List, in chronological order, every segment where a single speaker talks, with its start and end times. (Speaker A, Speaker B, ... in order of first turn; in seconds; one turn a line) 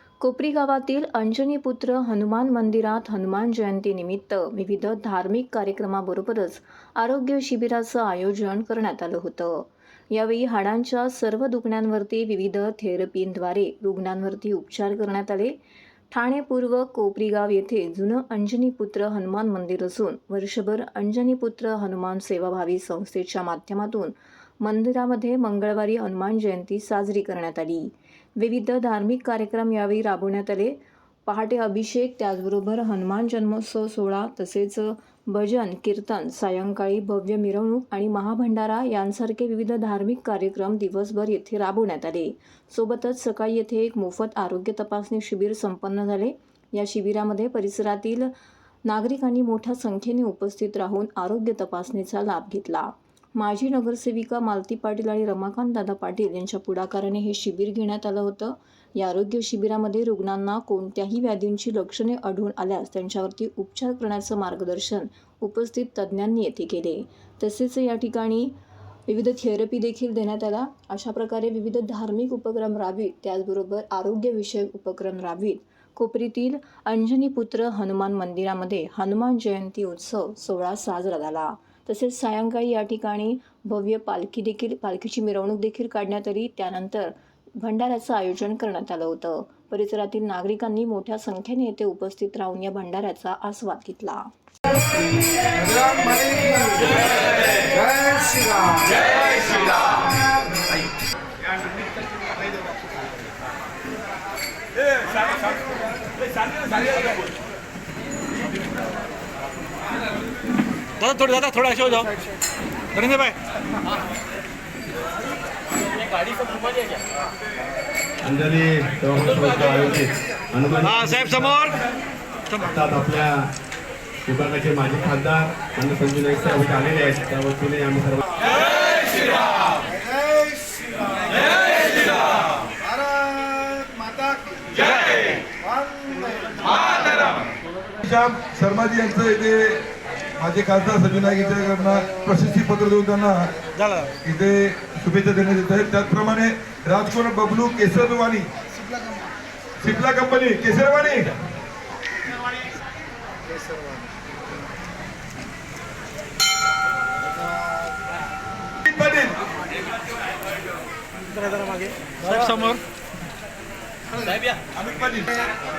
Speaker A: 0.2-15.6
Speaker A: 16.1-48.3
Speaker A: 48.9-68.5
Speaker A: 69.1-94.3
Speaker B: 95.6-97.0
Speaker B: 97.7-99.0
Speaker C: 111.0-112.2
Speaker C: 113.0-113.4
Speaker C: 116.1-117.0
Speaker D: 118.2-121.8
Speaker D: 122.5-123.5
Speaker D: 124.2-128.4
Speaker B: 129.9-132.2
Speaker B: 132.8-134.4
Speaker B: 135.6-136.6
Speaker E: 136.7-137.4
Speaker E: 138.0-139.8
Speaker E: 140.4-143.5
Speaker C: 143.8-144.1
Speaker E: 144.2-148.5
Speaker E: 149.8-151.4
Speaker E: 158.8-159.4
Speaker C: 161.3-162.8
Speaker E: 164.7-165.4